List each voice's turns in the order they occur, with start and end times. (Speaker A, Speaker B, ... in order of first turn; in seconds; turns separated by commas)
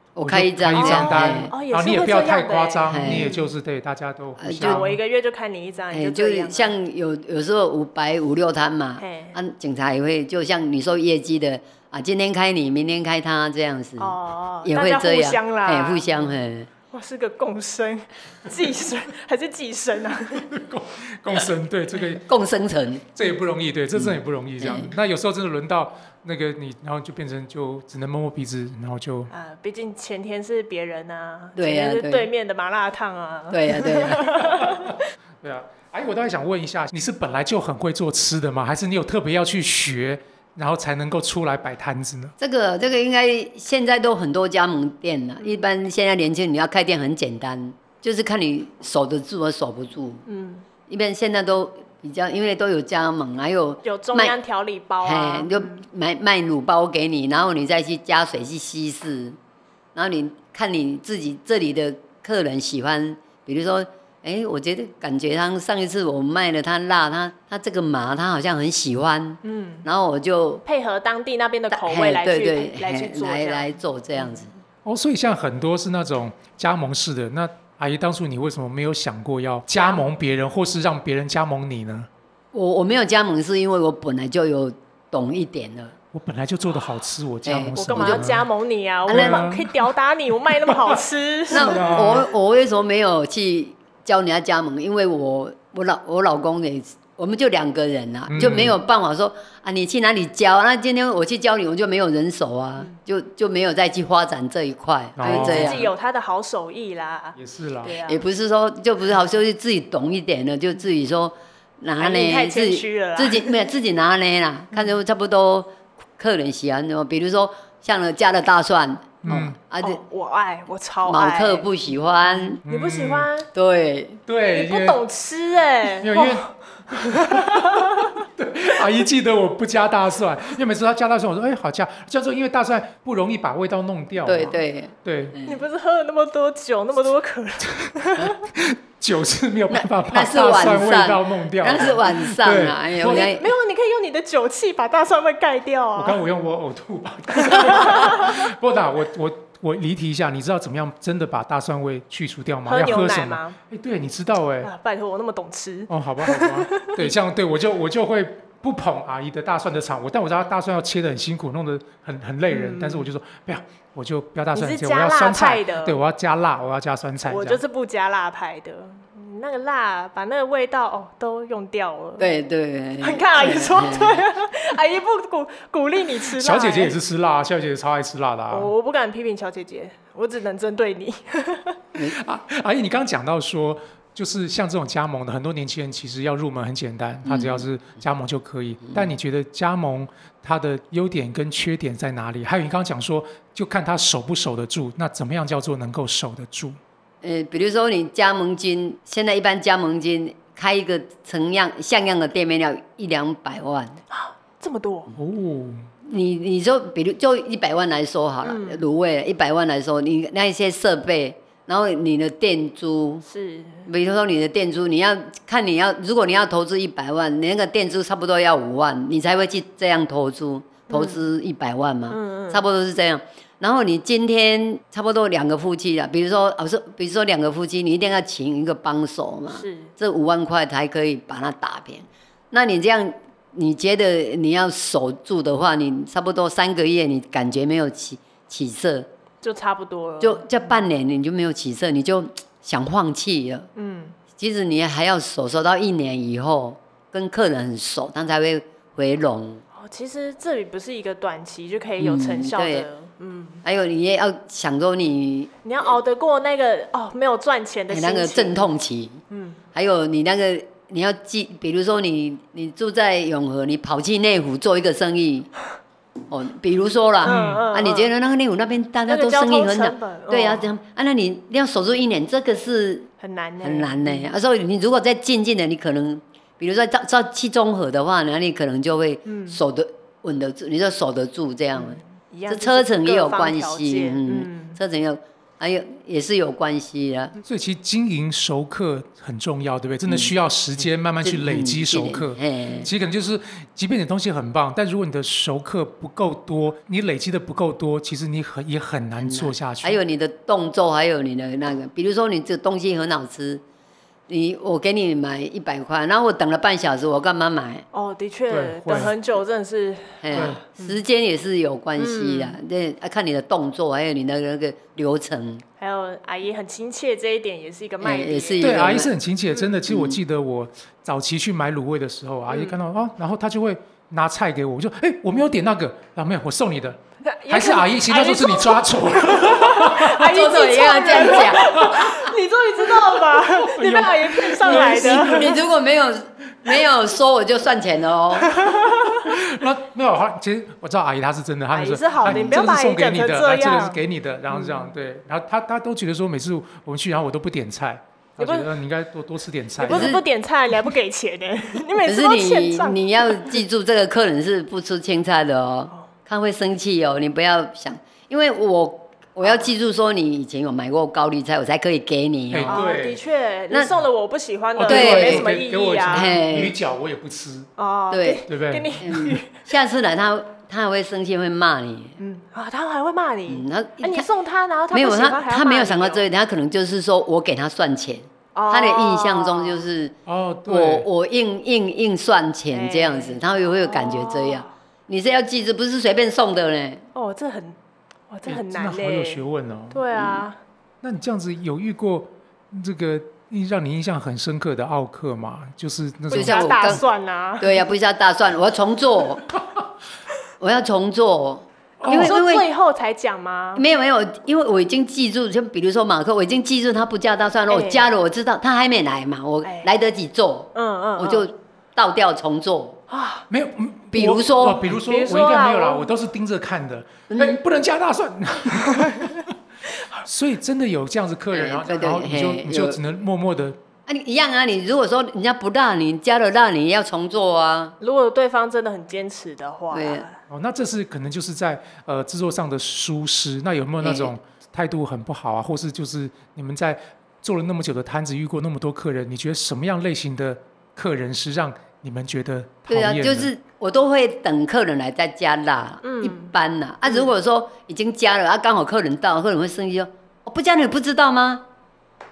Speaker A: 0.2-1.5, Speaker B: 0.2-5.0, Speaker C: 0.8-3.5, Speaker A: 2.9-3.3, Speaker A: 4.4-4.8, Speaker C: 4.6-6.7, Speaker A: 5.9-16.7, Speaker C: 9.0-9.4, Speaker C: 14.0-16.3, Speaker C: 16.9-20.5, Speaker B: 20.4-22.2, Speaker A: 22.2-23.1, Speaker B: 23.1-29.3, Speaker A: 23.9-24.9, Speaker C: 29.3-35.0, Speaker A: 31.6-32.3, Speaker A: 33.5-34.4, Speaker B: 34.5-42.4, Speaker A: 42.4-50.2, Speaker C: 50.3-50.6, Speaker A: 50.9-54.4, Speaker C: 53.8-55.8, Speaker A: 55.0-59.4, Speaker A: 60.0-70.6, Speaker C: 69.4-69.9, Speaker C: 70.7-74.3, Speaker A: 71.7-74.5, Speaker B: 74.8-82.1, Speaker C: 79.8-80.0, Speaker A: 82.5-85.9, Speaker B: 86.1-88.5, Speaker A: 87.5-88.3, Speaker C: 87.8-92.0, Speaker B: 89.1-89.9, Speaker A: 89.1-89.5, Speaker B: 90.7-91.0, Speaker B: 91.5-92.3, Speaker A: 91.5-105.9, Speaker B: 98.3-98.8, Speaker B: 105.2-105.9, Speaker C: 105.2-108.2, Speaker B: 107.4-107.9, Speaker A: 108.0-120.0, Speaker C: 112.0-113.5, Speaker B: 119.2-119.6, Speaker C: 119.8-121.7, Speaker A: 121.1-122.6, Speaker C: 122.3-123.5, Speaker B: 122.7-123.3, Speaker A: 123.5-124.2, Speaker B: 124.3-125.0, Speaker C: 124.5-128.3, Speaker B: 126.0-135.4, Speaker A: 134.2-135.6, Speaker C: 135.4-138.5, Speaker B: 138.2-143.3, Speaker A: 139.7-143.5, Speaker C: 143.0-146.2, Speaker B: 146.0-154.7, Speaker C: 147.3-148.4, Speaker C: 152.7-153.6, Speaker C: 154.6-157.1, Speaker B: 155.9-167.6, Speaker C: 162.5-163.1, Speaker C: 164.5-166.0, Speaker C: 167.3-172.3, Speaker A: 172.2-174.2, Speaker C: 173.0-177.0, Speaker B: 176.4-178.7, Speaker C: 178.5-181.8, Speaker B: 182.0-196.8, Speaker A: 187.2-187.7, Speaker A: 197.2-204.0, Speaker C: 204.1-205.1, Speaker B: 205.2-205.9, Speaker A: 206.0-213.2, Speaker C: 208.4-208.8, Speaker C: 213.2-213.9, Speaker A: 213.9-239.1, Speaker C: 220.9-221.2, Speaker C: 222.1-222.6, Speaker C: 229.5-229.9, Speaker C: 239.4-240.5, Speaker A: 240.2-243.7, Speaker C: 243.8-244.2, Speaker A: 244.4-249.6, Speaker C: 249.8-253.6, Speaker A: 252.0-252.9, Speaker A: 253.6-255.5, Speaker C: 255.6-258.7, Speaker A: 257.9-259.2, Speaker C: 259.3-259.6, Speaker A: 259.8-265.5, Speaker A: 266.3-273.1, Speaker C: 267.2-268.1, Speaker B: 267.2-267.6, Speaker C: 269.1-270.7, Speaker C: 273.2-274.3, Speaker A: 273.6-287.4, Speaker C: 279.3-279.6, Speaker C: 281.8-284.8, Speaker B: 287.4-300.0, Speaker A: 290.1-290.3, Speaker A: 291.2-292.9, Speaker A: 299.2-303.6, Speaker A: 304.3-307.9, Speaker C: 307.9-311.0, Speaker B: 308.5-309.1, Speaker A: 310.2-315.6, Speaker B: 310.3-310.6, Speaker C: 312.0-312.6, Speaker C: 315.8-318.8, Speaker A: 318.0-319.1, Speaker B: 318.6-330.3, Speaker A: 319.9-320.2, Speaker C: 322.5-322.8, Speaker C: 327.2-335.6, Speaker A: 330.1-332.1, Speaker B: 331.6-332.2, Speaker B: 333.0-335.6, Speaker A: 334.6-338.7, Speaker C: 338.4-339.3, Speaker B: 339.1-350.2, Speaker C: 341.7-344.0, Speaker A: 342.2-342.6, Speaker C: 344.5-344.9, Speaker C: 348.4-348.7, Speaker C: 349.8-353.6, Speaker A: 349.8-350.2, Speaker A: 352.0-362.8, Speaker B: 362.5-363.2, Speaker C: 362.7-366.6, Speaker B: 364.8-367.7, Speaker A: 364.8-365.5, Speaker A: 366.1-366.8, Speaker C: 367.8-369.6, Speaker A: 368.1-368.4, Speaker B: 368.5-369.4, Speaker A: 369.0-372.2, Speaker C: 372.2-376.3, Speaker A: 373.5-374.3, Speaker A: 374.9-387.0, Speaker C: 378.6-379.8, Speaker B: 380.3-381.1, Speaker C: 382.7-384.7, Speaker C: 387.1-387.8, Speaker C: 388.3-390.6, Speaker B: 388.5-390.1, Speaker B: 391.0-397.0, Speaker C: 396.3-397.8, Speaker A: 396.3-397.0, Speaker A: 397.6-399.4, Speaker A: 400.6-402.7, Speaker B: 402.0-402.3, Speaker C: 402.1-403.8, Speaker A: 403.8-413.0, Speaker C: 407.7-408.1, Speaker C: 409.6-409.9, Speaker C: 410.7-411.5, Speaker C: 413.1-413.5, Speaker B: 413.5-419.5, Speaker A: 414.1-414.9, Speaker C: 414.9-416.1, Speaker A: 417.3-417.6, Speaker C: 419.1-419.3, Speaker B: 420.2-423.8, Speaker A: 421.5-423.0, Speaker A: 424.1-428.0, Speaker C: 428.0-430.4, Speaker A: 429.9-430.2, Speaker B: 430.5-443.5, Speaker A: 434.0-434.3, Speaker A: 442.9-451.6, Speaker C: 446.0-446.5